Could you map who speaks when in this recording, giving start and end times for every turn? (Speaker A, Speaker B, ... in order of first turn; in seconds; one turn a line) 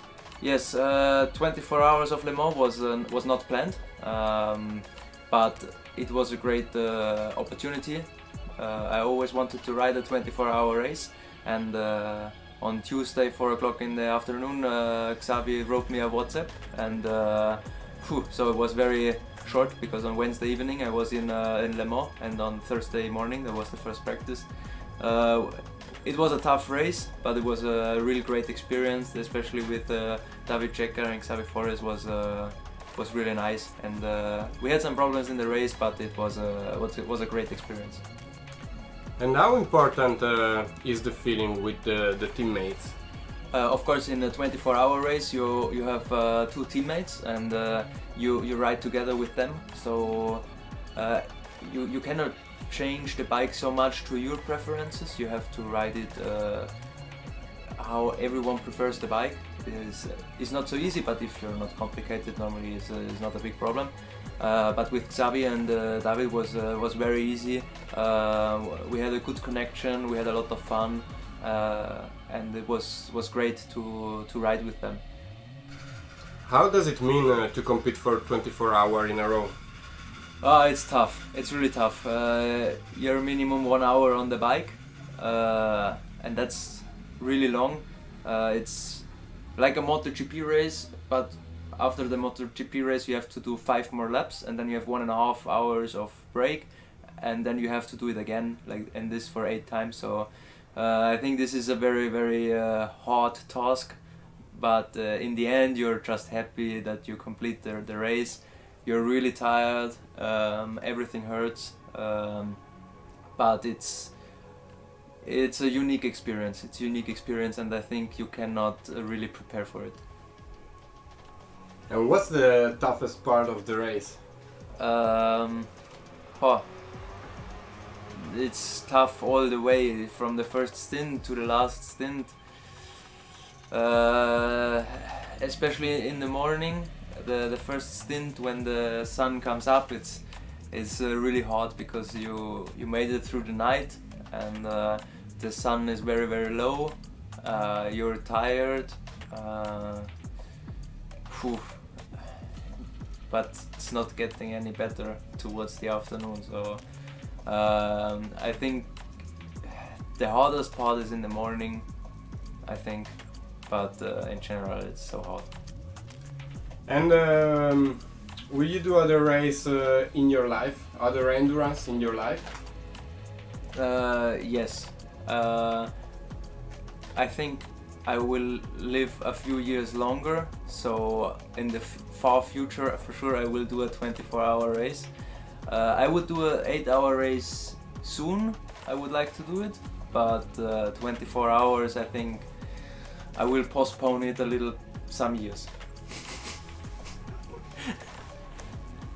Speaker A: 0.4-38.0
Speaker B: 39.2-43.0
Speaker A: 43.5-56.8
Speaker A: 57.8-75.0
Speaker B: 76.5-79.5
Speaker A: 80.4-112.7
Speaker A: 113.3-114.2
Speaker A: 115.2-120.0
Speaker B: 121.9-124.2
Speaker A: 124.8-125.7
Speaker A: 126.3-126.7
Speaker A: 128.1-132.9
Speaker A: 133.7-150.1
Speaker A: 151.3-152.3
Speaker A: 153.3-159.0
Speaker A: 159.6-161.9
Speaker A: 162.6-165.5
Speaker B: 166.8-172.6
Speaker A: 173.7-175.9
Speaker A: 177.2-195.7